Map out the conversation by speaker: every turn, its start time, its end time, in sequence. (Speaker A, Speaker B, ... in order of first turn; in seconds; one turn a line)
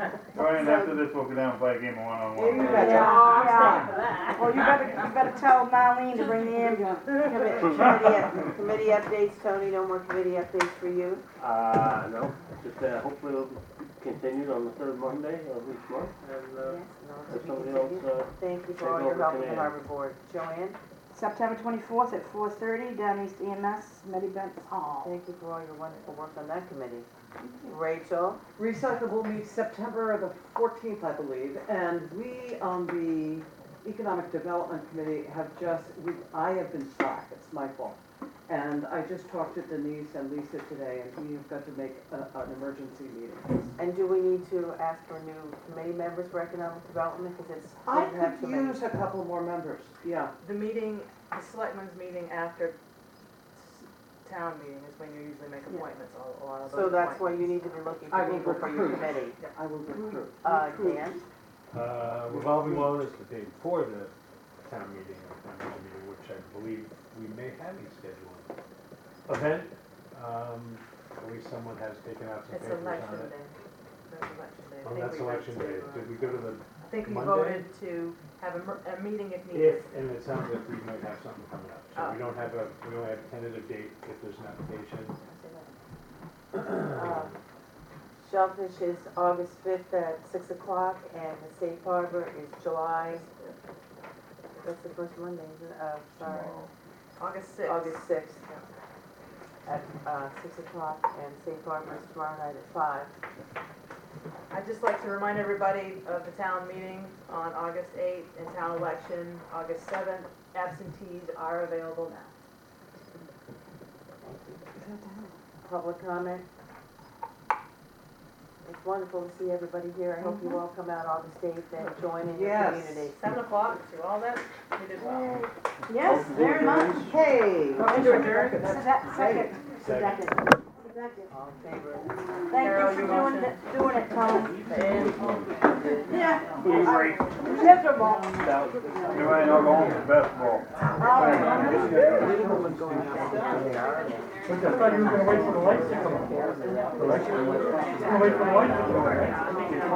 Speaker A: 0.3-3.0
Speaker B: 0.6-0.9
Speaker C: 2.3-3.9
Speaker D: 2.6-5.3
Speaker E: 2.6-7.2
Speaker D: 6.2-7.6
Speaker B: 7.2-11.2
Speaker F: 11.4-19.8
Speaker B: 16.6-20.8
Speaker E: 21.1-25.1
Speaker B: 25.0-27.1
Speaker E: 27.4-27.7
Speaker B: 27.6-28.4
Speaker C: 28.6-43.7
Speaker B: 43.8-48.8
Speaker C: 47.9-50.3
Speaker D: 50.4-52.8
Speaker D: 53.5-57.5
Speaker B: 56.7-59.4
Speaker C: 58.1-61.2
Speaker B: 60.4-61.2
Speaker G: 61.7-64.1
Speaker C: 62.3-62.9
Speaker G: 64.6-68.5
Speaker G: 69.3-73.3
Speaker D: 72.5-73.5
Speaker D: 74.1-79.9
Speaker G: 74.8-77.7
Speaker G: 79.5-85.2
Speaker D: 82.0-82.2
Speaker D: 85.2-85.7
Speaker B: 86.5-87.4
Speaker B: 88.2-93.2
Speaker D: 93.0-93.6
Speaker B: 94.6-96.6
Speaker D: 97.2-98.7
Speaker B: 97.6-98.4
Speaker B: 99.7-103.1
Speaker D: 104.5-112.3
Speaker B: 114.2-114.7
Speaker C: 114.8-115.3
Speaker B: 115.6-116.5
Speaker B: 118.6-123.2
Speaker E: 120.2-120.6
Speaker C: 122.3-123.1
Speaker D: 123.1-125.5
Speaker E: 125.9-127.2
Speaker F: 126.0-127.1
Speaker C: 126.8-129.6
Speaker E: 127.8-131.3
Speaker G: 129.8-130.3
Speaker B: 131.3-132.2
Speaker E: 132.5-134.7
Speaker D: 132.5-133.6
Speaker F: 134.5-135.7
Speaker E: 136.1-138.6
Speaker F: 136.6-137.3
Speaker F: 138.4-139.2
Speaker A: 139.1-141.6
Speaker E: 139.1-139.6
Speaker G: 139.8-140.1
Speaker E: 141.0-142.0
Speaker B: 141.2-144.3
Speaker G: 141.4-141.8
Speaker A: 144.5-145.9
Speaker A: 147.0-147.4
Speaker F: 148.0-148.7
Speaker A: 148.3-149.3